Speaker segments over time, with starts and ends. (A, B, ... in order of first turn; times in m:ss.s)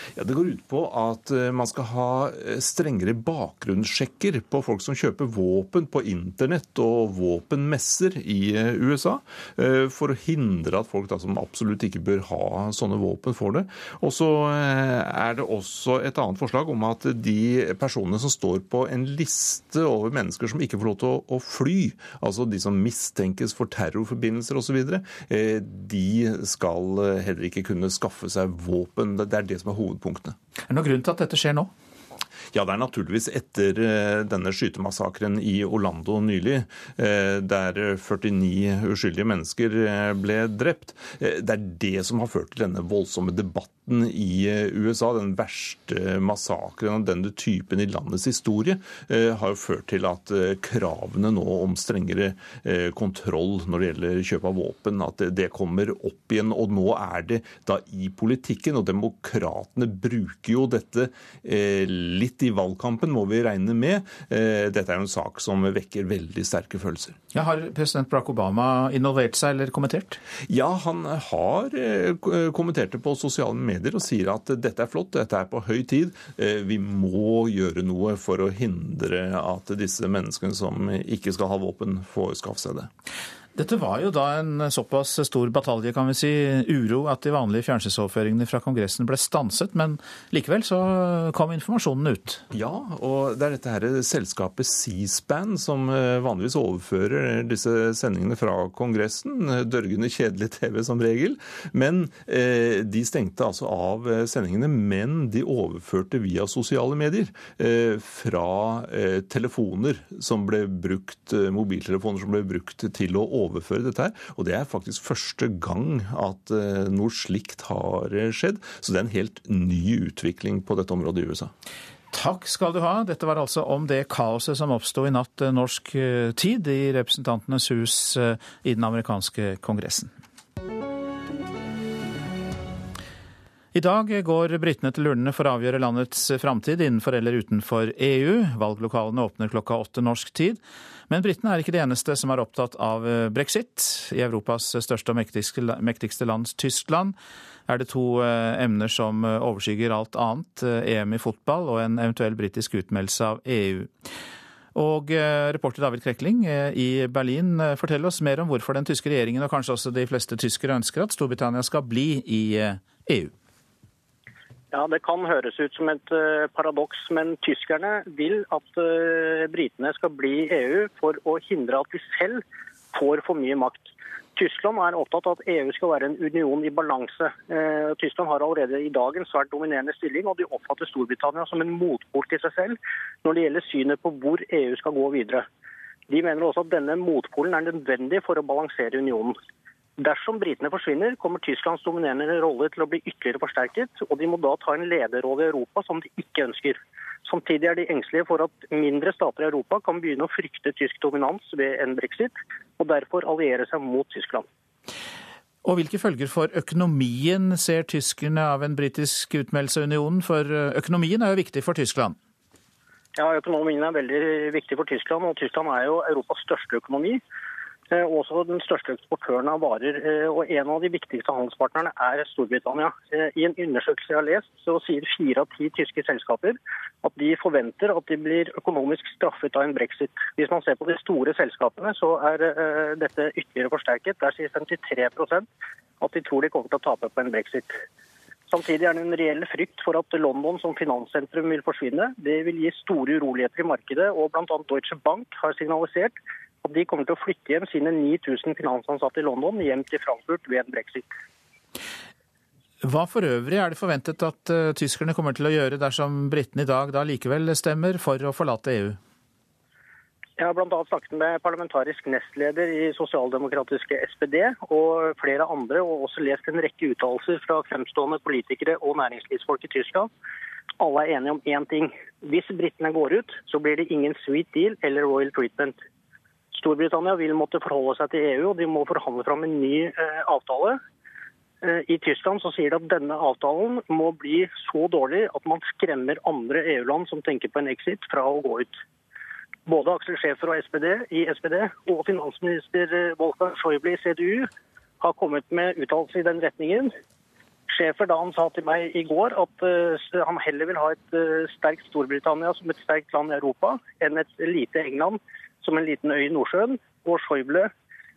0:00.2-0:30.4 A
0:30.7-0:31.7 B
0:32.5-1:07.2 A
1:07.3-1:10.2 B
1:10.5-1:22.9 A
1:23.5-1:32.4 B
1:32.5-2:01.5 A
2:02.1-2:10.1 B
2:13.7-2:27.1 B
2:27.7-2:33.9 B
2:34.7-2:43.3 B
2:44.7-3:05.4 C
3:06.1-3:09.4 C
3:10.0-3:24.4 C
3:25.6-3:32.2 B
3:33.1-3:37.2 C
3:37.9-3:55.5 C
3:56.0-3:57.8 C
3:58.5-4:11.1 C
4:12.8-4:19.0 B
4:20.4-4:30.1 C
4:30.8-4:35.8 C
4:36.5-4:40.8 C
4:41.6-4:48.8 C
4:49.7-4:54.5 C
4:55.0-4:56.9 C
4:57.7-5:07.7 C